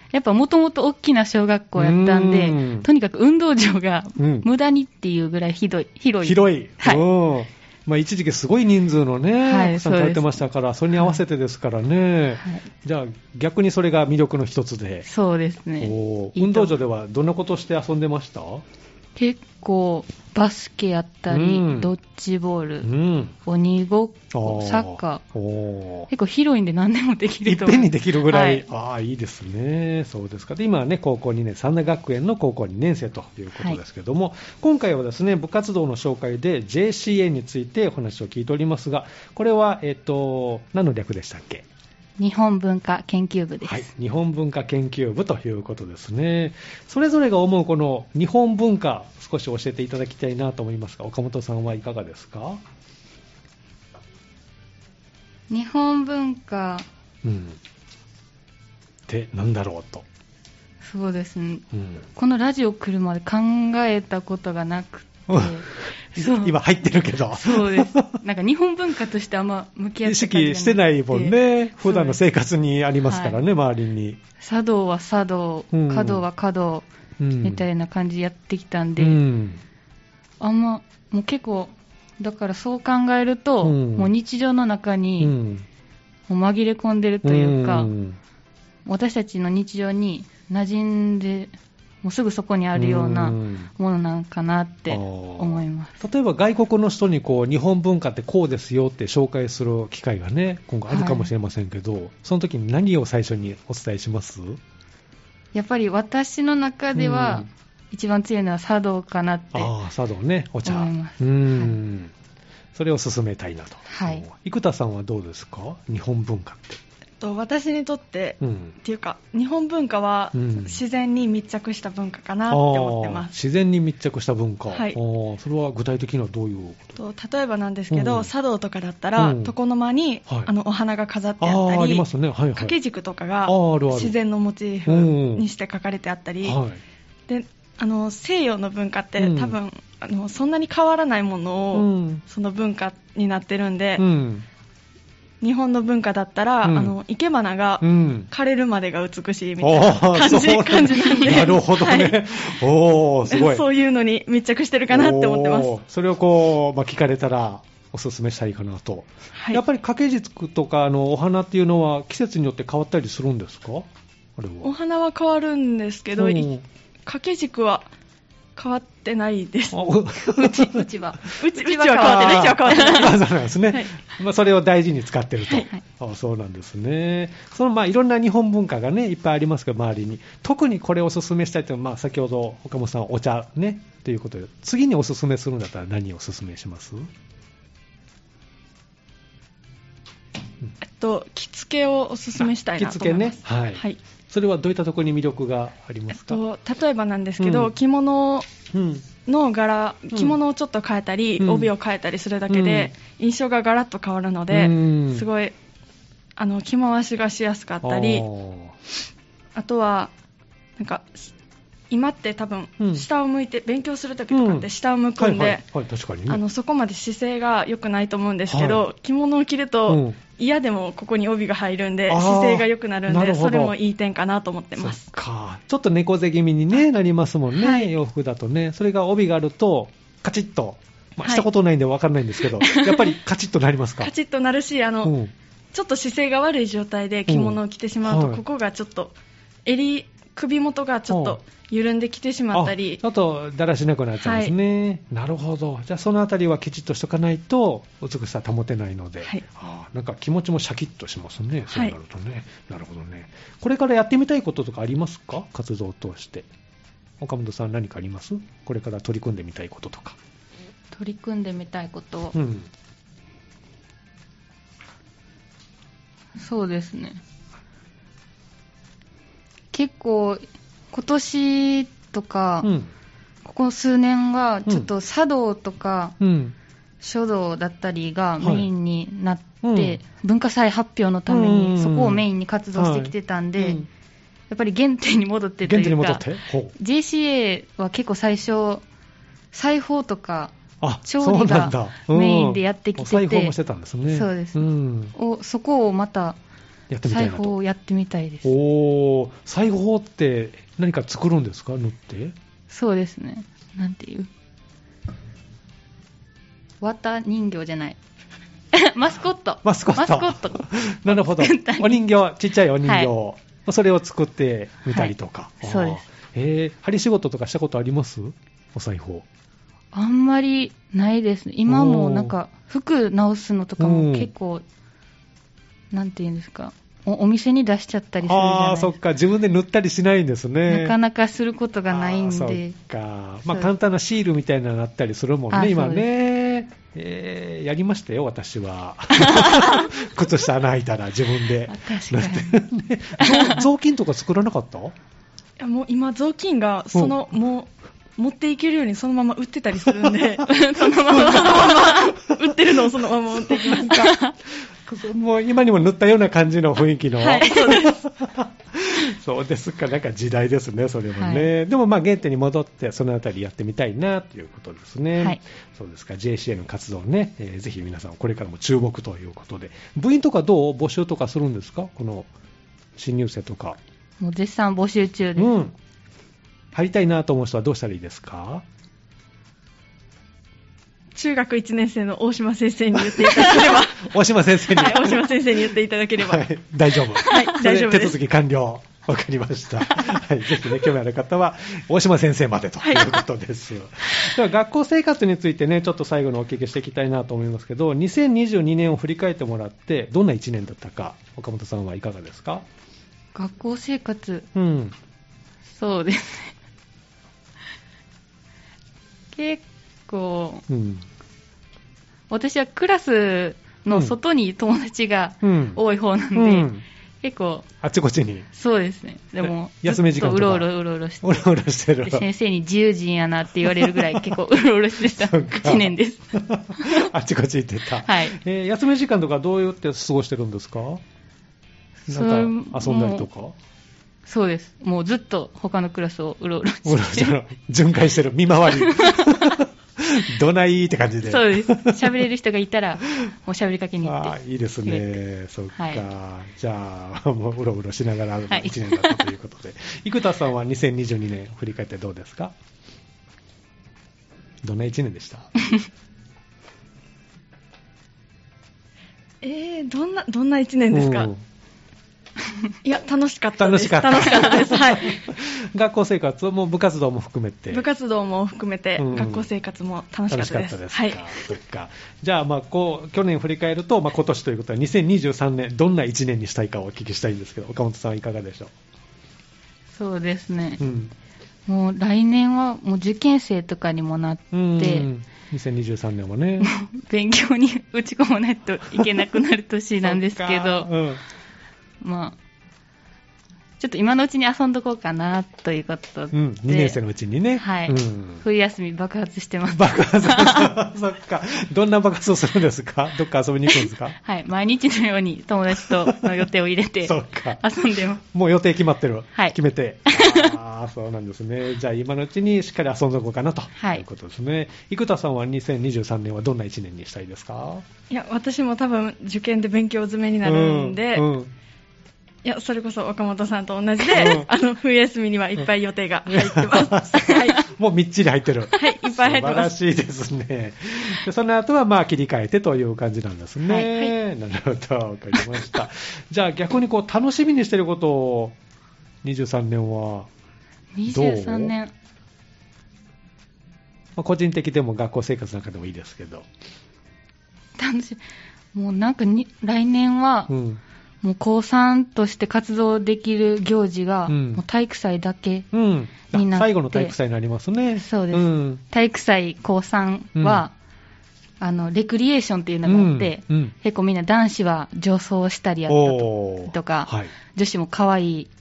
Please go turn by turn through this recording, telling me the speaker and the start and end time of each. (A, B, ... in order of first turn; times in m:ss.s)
0:00.1-0:07.0 A
0:01.8-0:02.9 B
0:04.2-0:04.5 B
0:06.2-0:15.1 B
0:09.4-0:10.4 A
0:15.1-0:16.8 A
0:15.8-0:18.6 B
0:19.2-0:22.9 A
0:21.3-0:21.9 B
0:22.8-0:23.3 B
0:23.4-0:25.2 A
0:24.3-0:26.1 B
0:26.1-0:28.6 A
0:27.4-0:41.6 B
0:33.6-0:33.8 A
0:42.2-0:43.9 A
0:43.6-0:52.6 B
0:55.5-0:56.9 A
0:57.2-0:57.6 B
0:59.1-1:00.0 B
1:00.8-1:06.6 A
1:01.7-1:02.0 B
1:05.3-1:08.2 B
1:07.3-1:12.2 A
1:10.0-1:14.2 B
1:13.0-1:13.4 A
1:14.4-1:16.8 A
1:15.7-1:16.2 B
1:17.2-1:17.6 B
1:17.4-1:19.2 A
1:19.0-1:19.6 B
1:20.4-1:25.4 A
1:23.6-1:24.1 B
1:25.2-1:25.6 B
1:26.3-1:27.9 A
1:27.2-1:28.2 B
1:28.9-1:36.0 A
1:32.8-1:33.7 B
1:34.9-1:44.6 B
1:40.9-1:41.3 A
1:45.5-1:49.7 A
1:47.0-1:47.5 B
1:49.5-1:52.1 B
1:50.6-1:51.8 A
1:52.8-1:56.8 B
1:53.9-1:54.3 A
1:57.2-2:03.3 C
1:58.4-1:58.7 B
2:00.4-2:00.8 B
2:02.5-2:07.0 B
2:04.7-2:05.0 C
2:07.0-2:16.6 C
2:07.9-2:08.3 B
2:09.2-2:09.5 B
2:11.4-2:12.8 B
2:13.4-2:14.2 B
2:14.9-2:15.5 B
2:16.4-2:16.8 B
2:17.3-2:24.0 C
2:19.2-2:19.6 B
2:21.7-2:22.2 B
2:24.0-2:24.4 B
2:25.4-2:32.6 C
2:26.6-2:27.0 B
2:27.8-2:28.3 B
2:29.6-2:33.6 B
2:33.3-2:35.7 C
2:34.9-2:44.7 B
2:39.4-2:39.6 C
2:44.6-2:46.5 C
2:46.1-2:46.6 B
2:47.1-2:47.9 C
2:48.6-2:49.8 C
2:49.7-2:50.9 B
2:50.3-2:53.1 A
2:51.4-2:53.9 C
2:51.9-3:07.1 B
3:10.8-3:14.0 C
3:12.8-3:16.4 B
3:16.1-3:18.5 C
3:17.4-3:17.7 B
3:18.7-3:19.1 B
3:19.3-3:25.5 C
3:20.1-3:20.4 B
3:21.4-3:21.7 B
3:22.5-3:22.9 B
3:24.5-3:25.3 B
3:26.4-3:28.3 C
3:27.8-3:28.8 B
3:29.6-3:30.1 C
3:30.8-3:31.3 C
3:31.9-3:35.6 C
3:32.8-3:33.1 B
3:34.3-3:36.4 B
3:36.3-3:45.1 C
3:38.5-3:38.9 B
3:39.9-3:40.2 B
3:42.1-3:43.7 B
3:44.8-3:54.1 B
3:47.6-3:47.9 C
3:51.2-3:51.5 C
3:54.0-3:55.1 C
3:55.0-3:55.3 B
3:55.7-3:59.1 C
3:57.3-3:58.4 B
3:59.6-4:03.0 C
4:01.1-4:01.4 B
4:02.5-4:16.5 B
4:04.2-4:04.5 C
4:17.2-4:20.2 B
4:20.9-4:22.4 A
4:22.3-4:22.7 B
4:26.4-4:27.2 A
4:29.7-4:32.7 A
4:32.6-4:32.9 B
4:33.4-4:36.2 A
4:36.2-4:36.6 B
4:37.0-4:43.8 A
4:38.4-4:38.7 B
4:39.6-4:40.0 B
4:41.3-4:43.9 B
4:44.5-4:46.2 A
4:45.6-4:46.8 B
4:46.8-4:48.8 A
4:49.5-4:53.6 A
4:50.8-4:55.1 B
4:54.1-4:54.6 A
4:55.1-4:56.4 A
4:56.9-4:57.6 B
4:57.0-4:58.5 A
4:58.4-5:02.4 B
5:02.7-5:04.3 A
5:06.8-5:08.0 A
5:08.7-5:12.0 A
5:09.6-5:19.2 B
5:12.8-5:13.1 A
5:14.9-5:16.0 A
5:19.9-5:24.6 A
5:21.7-5:22.3 B
5:23.8-5:24.3 B
5:25.9-5:29.0 A
5:28.2-5:31.0 B
5:30.7-5:32.8 A
5:31.9-5:45.0 B
5:35.5-5:36.1 A
5:39.2-5:39.6 A
5:41.7-5:42.6 A
5:43.2-5:43.7 A
5:45.6-5:54.1 C
5:49.9-5:50.4 B
5:50.4-5:52.1 A
5:51.1-5:51.8 B
5:53.4-5:54.2 B
5:53.9-5:54.3 A
5:54.8-6:12.3 B
5:57.2-5:58.0 C
6:01.2-6:01.5 A
6:13.0-6:13.8 B
6:14.2-6:15.5 A
6:15.4-6:15.8 B
6:16.7-6:18.6 B
6:21.1-6:24.1 C
6:23.0-6:25.6 B
6:24.7-6:26.5 C
6:26.2-6:42.6 B
6:27.2-6:28.2 C
6:32.8-6:33.2 C
6:43.4-6:44.5 A
6:44.5-6:45.0 B
6:45.7-6:46.6 A
6:49.3-6:50.7 A
6:50.7-6:51.0 B
6:52.3-6:56.7 A
6:53.9-6:54.2 B
6:55.4-6:55.8 B
6:56.3-6:56.8 B
6:57.2-6:57.6 A
6:57.8-6:58.5 B
6:58.5-7:01.5 A
6:59.4-7:00.7 B
7:01.2-7:02.3 B
7:02.0-7:07.1 A
7:03.6-7:04.4 B
7:05.1-7:11.0 B
7:08.0-7:08.4 A
7:12.1-7:13.3 A
7:12.1-7:13.6 B
7:14.3-7:17.4 A
7:16.8-7:22.3 B
7:18.8-7:19.6 A
7:21.2-7:25.2 A
7:24.0-7:32.5 B
7:25.7-7:26.0 A
7:28.5-7:29.2 A
7:34.6-7:35.5 B
7:39.4-7:41.3 C
7:40.9-7:41.4 B
7:42.8-7:45.2 C
7:43.6-7:47.9 B
7:47.7-7:51.4 C
7:49.0-7:49.5 B
7:50.3-7:58.7 B
8:00.0-8:00.8 A
8:00.8-8:01.1 B
8:01.6-8:05.1 A
8:04.5-8:06.7 B
8:06.6-8:10.9 A
8:08.9-8:09.2 B
8:10.0-8:11.2 B
8:12.0-8:12.4 A
8:13.8-8:17.0 A
8:16.3-8:18.4 B
8:17.6-8:20.7 A
8:19.7-8:24.2 B
8:23.8-8:28.2 A
8:25.7-8:26.4 B
8:27.0-8:37.8 B
8:29.4-8:30.6 A
8:33.8-8:34.0 A
8:38.1-8:41.3 C
8:40.4-8:41.5 B
8:42.4-8:47.7 C
8:44.1-8:44.5 B
8:46.3-8:58.6 B
8:48.8-8:49.7 C
8:53.9-8:54.1 C
8:59.2-9:00.3 B
9:01.0-9:01.9 A
9:01.1-9:01.7 B
9:04.2-9:06.5 B
9:07.8-9:08.2 A
9:08.7-9:10.6 A
9:10.5-9:10.8 B
9:11.2-9:15.7 A
9:14.3-9:14.6 B
9:15.7-9:18.8 B
9:16.3-9:17.1 A
9:18.0-9:20.7 A
9:20.4-9:20.6 B
9:21.6-9:28.5 A
9:22.9-9:23.7 B
9:25.9-9:27.3 B